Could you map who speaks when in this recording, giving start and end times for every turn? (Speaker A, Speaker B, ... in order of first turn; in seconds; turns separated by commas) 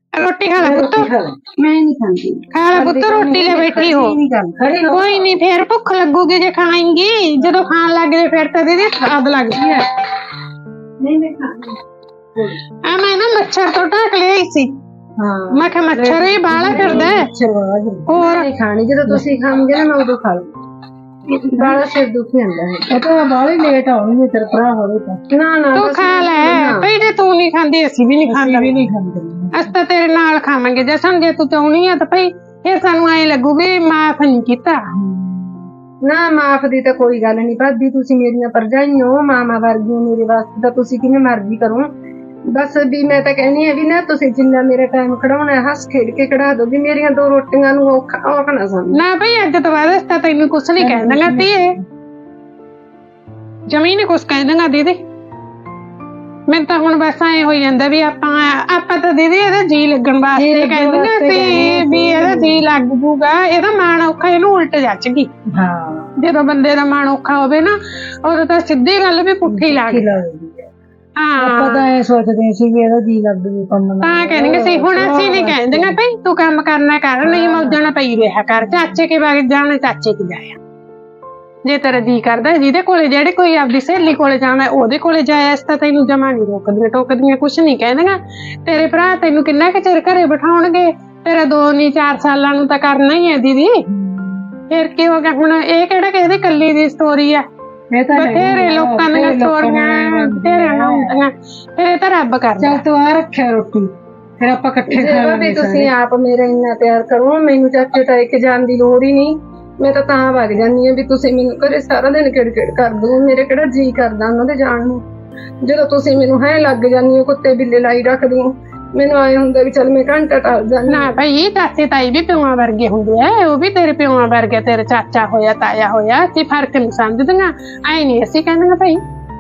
Speaker A: 0.2-1.1, Speaker B: 0.6-1.4, Speaker C: 1.6-4.6, Speaker A: 2.5-4.2, Speaker B: 2.7-3.3, Speaker B: 4.6-5.2, Speaker A: 4.9-9.9, Speaker C: 11.0-11.8, Speaker A: 12.9-14.7, Speaker B: 15.2-18.1, Speaker A: 15.5-17.3, Speaker A: 18.1-18.5, Speaker C: 18.2-20.6, Speaker C: 21.3-23.0, Speaker B: 22.9-25.2, Speaker C: 25.3-26.9, Speaker A: 25.8-28.8, Speaker B: 28.2-29.7, Speaker A: 29.5-34.8, Speaker B: 34.9-35.7, Speaker C: 36.0-41.9, Speaker C: 42.5-49.0, Speaker A: 48.9-51.8, Speaker B: 50.8-51.8, Speaker A: 53.7-55.0, Speaker A: 56.5-65.3, Speaker B: 60.4-62.6, Speaker B: 65.5-66.1, Speaker A: 66.2-70.1, Speaker B: 69.5-70.7, Speaker A: 71.2-71.9, Speaker B: 71.4-76.0, Speaker A: 74.0-80.6, Speaker B: 77.2-77.8, Speaker B: 78.6-79.0, Speaker A: 81.7-93.8, Speaker B: 93.9-94.6, Speaker A: 94.7-97.5, Speaker B: 97.9-101.1, Speaker A: 98.1-102.8, Speaker B: 102.6-105.9, Speaker C: 104.9-115.0, Speaker C: 115.6-121.1, Speaker A: 120.9-129.0